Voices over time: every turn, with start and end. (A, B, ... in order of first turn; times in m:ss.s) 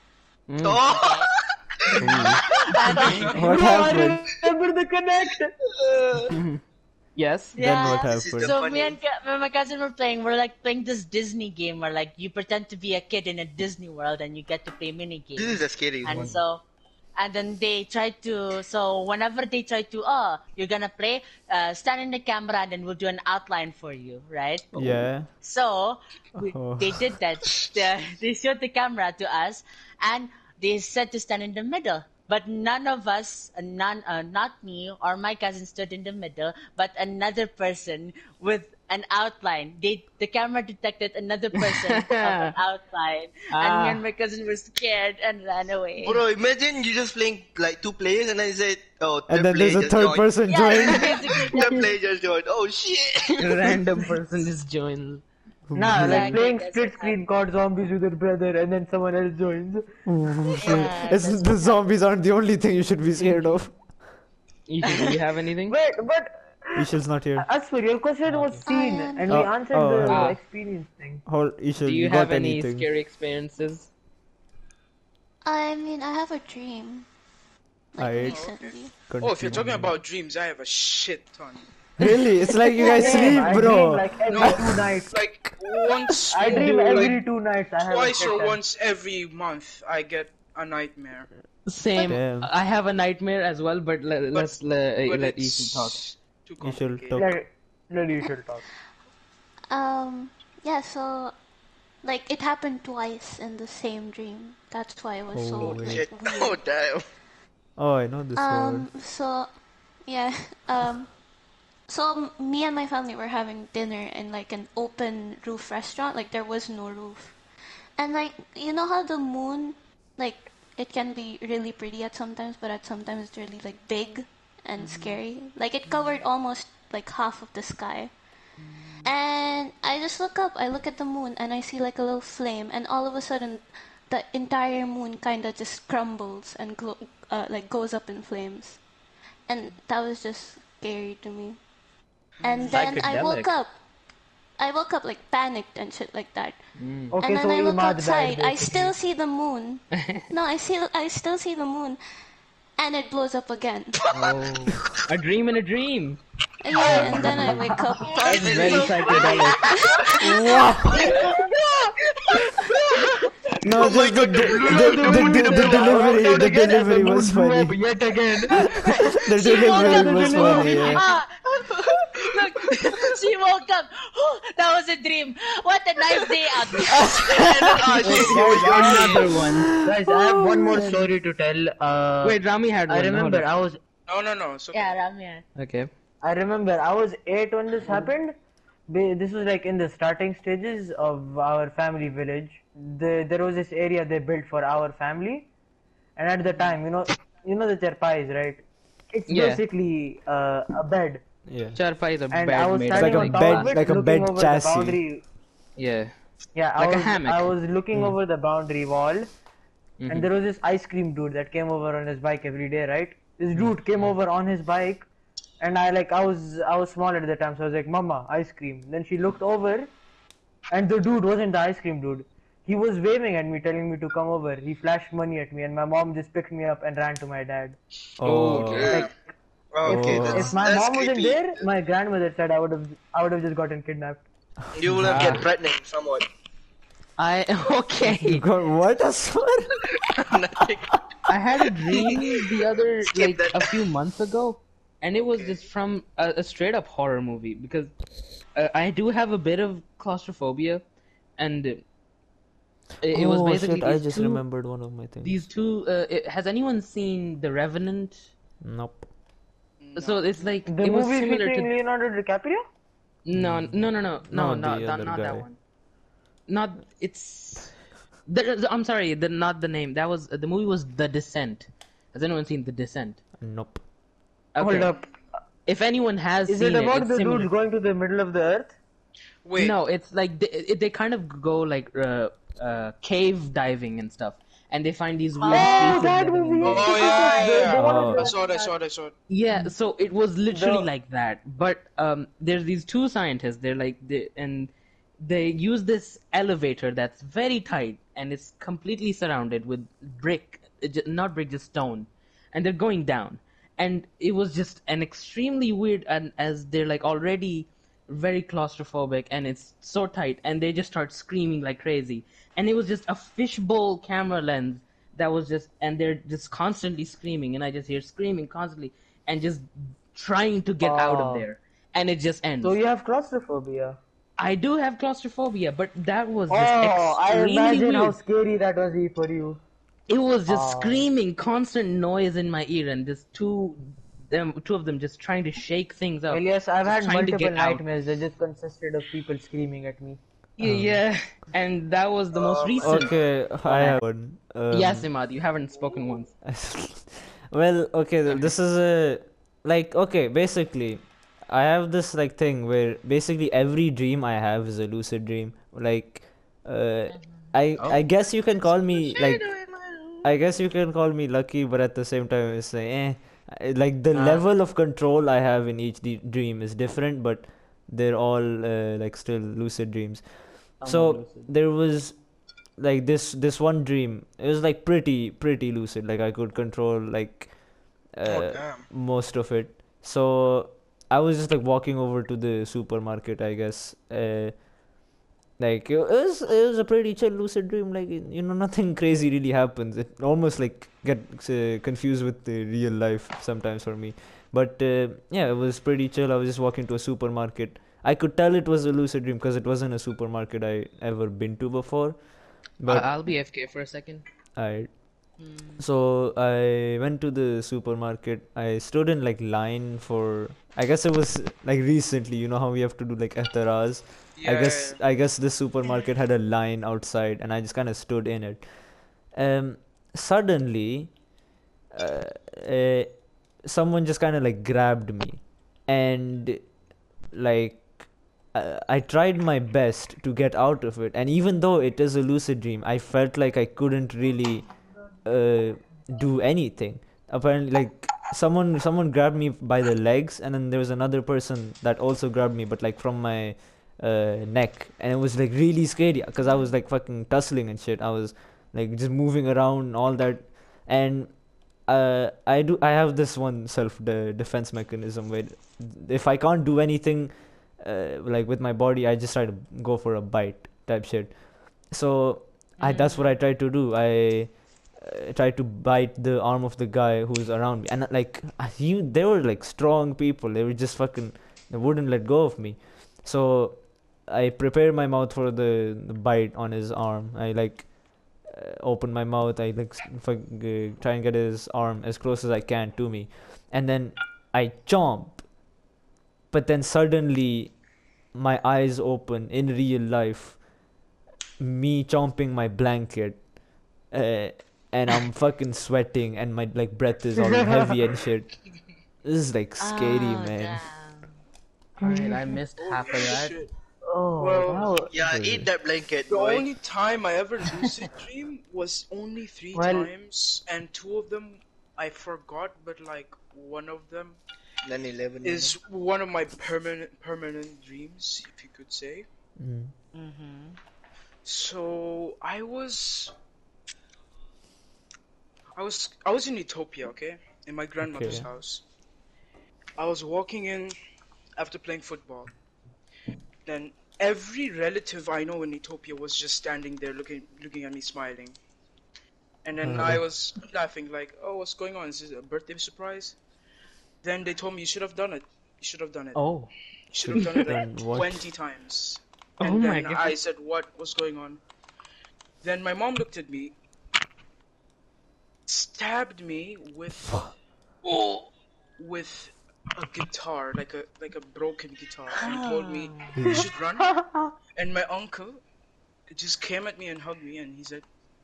0:00.5-0:00.8 A
0:00.6-0:02.7 B
0:00.8-0:01.3 C
0:02.0-0:02.4 D
0:02.7-0:03.5 C
0:03.0-0:05.5 E
0:03.0-0:03.5 F
0:03.3-0:04.2 D
0:05.7-0:06.4 B
0:06.3-0:06.6 A
0:07.2-0:07.6 A
0:07.6-0:16.6 C
0:07.6-0:08.6 D
0:07.9-0:09.0 B
0:15.4-0:16.4 B
0:17.2-0:46.2 C
0:24.7-0:25.3 D
0:26.4-0:27.1 D
0:41.6-0:42.6 A
0:43.5-0:44.0 A
0:46.0-0:53.8 B
0:49.3-0:51.4 D
0:50.4-0:51.9 C
0:53.4-0:55.2 A
0:55.7-0:56.4 D
0:55.8-0:59.8 E
0:56.0-0:57.2 C
1:00.1-1:04.1 D
1:00.5-1:01.8 C
1:04.7-1:05.8 A
1:05.7-1:11.2 E
1:06.8-1:07.5 D
1:08.3-1:08.6 A
1:08.7-1:09.5 G
1:09.3-1:10.4 D
1:10.1-1:10.4 A
1:11.3-1:12.9 D
1:11.8-1:13.9 A
1:15.4-1:17.1 G
1:17.9-1:18.9 G
1:18.0-1:18.5 D
1:18.2-1:21.7 F
1:19.1-1:19.9 D
1:22.0-1:24.9 D
1:22.8-1:23.3 G
1:22.8-1:25.1 E
1:24.3-1:27.2 F
1:26.1-1:26.6 D
1:26.3-1:28.6 E
1:27.8-1:31.3 F
1:31.7-1:36.0 A
1:32.1-1:32.5 D
1:34.3-1:37.3 F
1:36.6-1:37.4 D
1:37.2-1:38.6 E
1:39.7-1:41.3 G
1:42.0-1:46.6 G
1:45.3-1:46.1 D
1:45.6-1:47.0 B
1:47.8-1:48.9 D
1:48.4-1:49.5 G
1:50.1-1:51.1 G
1:51.9-1:57.4 G
1:58.0-2:08.1 G
2:04.8-2:05.2 C
2:05.9-2:06.2 C
2:08.6-2:09.1 C
2:09.0-2:18.8 G
2:19.5-2:21.6 G
2:22.4-2:22.7 C
2:22.4-2:23.7 G
2:22.7-2:23.5 A
2:24.6-2:26.6 G
2:26.8-2:27.2 A
2:27.1-2:28.9 E
2:27.2-2:32.0 G
2:29.9-2:30.3 A
2:32.8-2:34.0 G
2:34.1-2:36.2 A
2:36.6-2:40.4 G
2:36.8-2:38.1 E
2:36.9-2:37.6 A
2:37.2-2:37.5 D
2:38.0-2:40.3 B
2:38.2-2:39.7 A
2:40.2-2:41.1 D
2:40.9-2:41.2 B
2:40.9-2:43.2 E
2:42.3-2:43.0 B
2:43.6-2:47.8 D
2:43.7-2:46.2 B
2:43.8-2:48.8 E
2:48.5-2:51.0 D
2:49.3-2:57.2 C
2:49.6-2:51.0 E
2:51.7-2:52.2 B
2:56.9-2:57.8 D
2:57.2-2:59.3 B
2:58.0-3:03.8 E
2:58.0-2:59.7 A
2:58.9-2:59.2 F
2:59.6-3:00.9 D
3:02.2-3:03.5 A
3:04.1-3:05.0 F
3:04.7-3:05.4 C
3:05.6-3:05.9 A
3:06.2-3:08.3 E
3:08.9-3:15.5 E
3:16.2-3:21.2 E
3:19.3-3:19.6 A
3:21.5-3:21.8 D
3:21.8-3:23.7 A
3:22.3-3:25.2 E
3:22.9-3:25.0 D
3:25.8-3:26.1 A
3:26.6-3:29.3 E
3:26.8-3:27.6 A
3:30.0-3:30.3 A
3:30.1-3:35.1 E
3:35.6-3:39.9 E
3:40.7-3:47.8 E
3:48.2-3:49.0 D
3:48.2-3:49.0 A
3:48.4-3:49.1 B
3:49.7-3:51.6 B
3:49.8-3:50.6 D
3:49.9-3:54.2 E
3:54.7-3:56.3 B
3:54.8-3:55.4 D
3:55.0-3:55.5 A
3:57.2-3:58.4 A
3:58.0-3:59.7 D
3:59.9-4:01.0 B
4:01.3-4:07.9 A
4:01.9-4:02.5 B
4:03.0-4:03.8 B
4:05.2-4:05.6 B
4:08.6-4:10.8 A
4:11.4-4:11.8 A
4:13.0-4:14.5 A
4:13.1-4:15.4 D
4:15.2-4:18.3 A
4:18.6-4:19.1 D
4:19.8-4:20.5 F
4:20.0-4:21.7 A
4:20.7-4:22.6 E
4:23.2-4:25.6 A
4:23.4-4:25.5 D
4:26.5-4:33.2 A
4:33.4-4:33.8 D
4:34.5-4:34.9 A
4:34.6-4:35.1 E
4:35.7-4:37.5 A
4:36.5-4:38.8 E
4:39.4-4:39.8 F
4:39.6-4:46.9 A
4:45.4-4:46.0 C
4:45.5-4:48.4 E
4:46.6-4:49.1 F
4:46.8-4:48.7 C
4:47.8-4:48.3 D
4:49.3-5:22.8 A
4:50.5-4:50.9 E
5:20.8-5:21.5 E
5:22.6-5:24.0 E
5:24.4-5:28.2 A
5:26.5-5:29.6 E
5:30.1-5:37.8 A
5:30.5-5:31.1 E
5:36.3-5:40.2 E
5:40.6-5:44.0 A
5:40.6-5:41.0 D
5:42.3-5:43.1 B
5:42.8-5:45.1 D
5:44.7-5:46.3 A
5:46.4-5:59.5 D
5:57.1-5:57.5 C
5:58.7-6:00.2 B
6:00.2-6:12.2 D
6:04.1-6:04.4 A
6:10.8-6:11.5 A
6:12.8-6:17.5 D
6:18.1-6:24.7 D
6:18.3-6:18.8 B
6:25.6-6:43.1 D
6:42.9-6:44.2 A
6:44.6-6:44.9 D
6:45.4-6:45.8 C
6:45.8-6:58.7 D
6:54.4-6:55.0 F
6:59.3-7:01.1 D
7:01.9-7:03.1 D
7:03.6-7:06.7 D
7:07.3-7:14.7 D
7:15.2-8:05.4 D
7:42.8-7:43.3 C
8:06.5-8:07.7 D
8:08.3-8:10.6 D
8:11.6-8:13.4 D
8:14.1-8:18.5 D
8:19.2-8:20.8 D
8:19.8-8:21.3 C
8:22.0-8:23.6 A
8:22.0-8:22.4 E
8:22.8-8:23.7 F
8:24.1-8:25.1 E
8:24.4-8:25.0 F
8:25.1-8:26.7 B
8:25.3-8:25.7 D
8:26.3-8:34.4 F
8:29.7-8:30.1 E
8:34.8-8:35.8 B
8:35.4-8:39.3 F
8:39.6-8:39.9 D
8:40.1-8:40.8 C
8:41.4-8:43.3 F
8:45.8-8:48.8 F
8:48.0-8:48.5 D
8:50.0-8:51.0 F
8:51.6-8:52.5 F
8:53.7-8:58.6 F
8:59.6-9:03.4 F
8:59.8-9:00.2 D
9:04.2-9:06.4 F
9:06.4-9:06.7 A
9:07.1-9:11.6 F
9:07.2-9:08.5 D
9:09.6-9:10.4 A
9:12.6-9:13.8 F
9:15.7-9:17.5 F
9:18.1-9:18.5 A
9:19.0-9:24.1 F
9:22.4-9:23.4 C
9:23.4-9:23.7 D
9:24.1-9:24.4 E
9:24.8-9:25.6 F
9:26.3-9:28.0 F